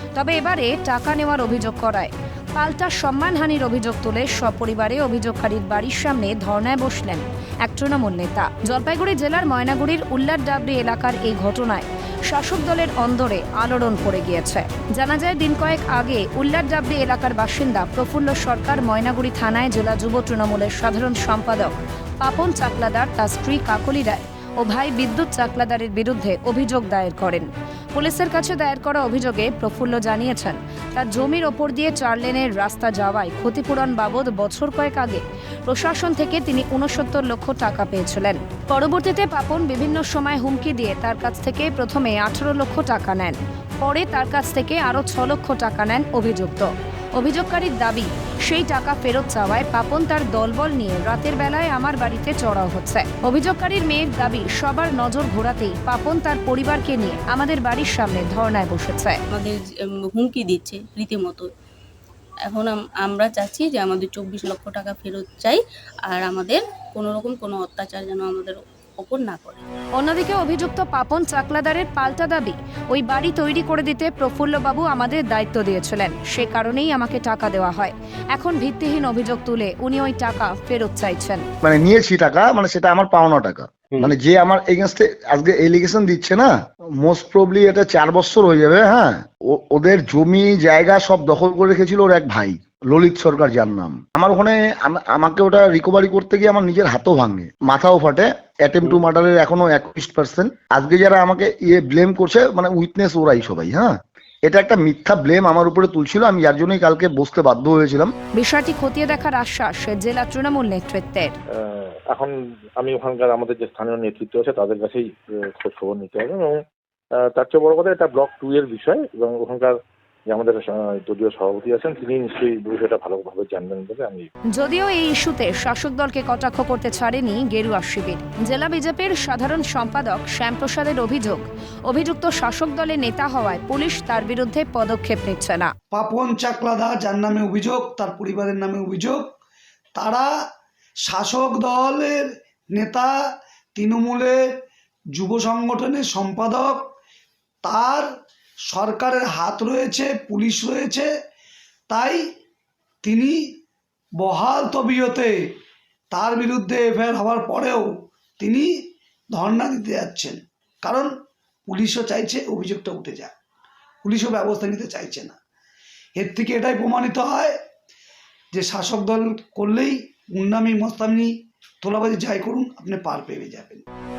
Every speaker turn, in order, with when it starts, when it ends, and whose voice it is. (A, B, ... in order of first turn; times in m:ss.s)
0:00.1-0:59.2 A
0:59.3-1:01.5 B
1:02.4-1:09.6 B
1:10.0-1:21.4 A
1:21.6-1:48.1 C
1:48.4-1:51.3 A
1:52.1-1:55.1 D
1:55.6-1:56.6 D
1:57.3-1:59.7 D
2:00.3-2:04.3 D
2:04.6-2:15.7 A
2:15.9-2:19.3 E
2:19.9-2:20.3 E
2:21.0-2:23.1 E
2:23.7-2:24.4 E
2:25.1-2:26.8 E
2:27.6-2:28.1 E
2:28.7-2:31.1 E
2:31.9-2:32.2 E
2:33.0-2:33.4 E
2:34.2-2:35.5 E
2:36.1-2:38.7 E
2:39.3-2:41.1 E
2:41.6-2:43.3 E
2:44.0-2:45.4 E
2:46.2-2:47.5 E
2:48.5-2:53.8 E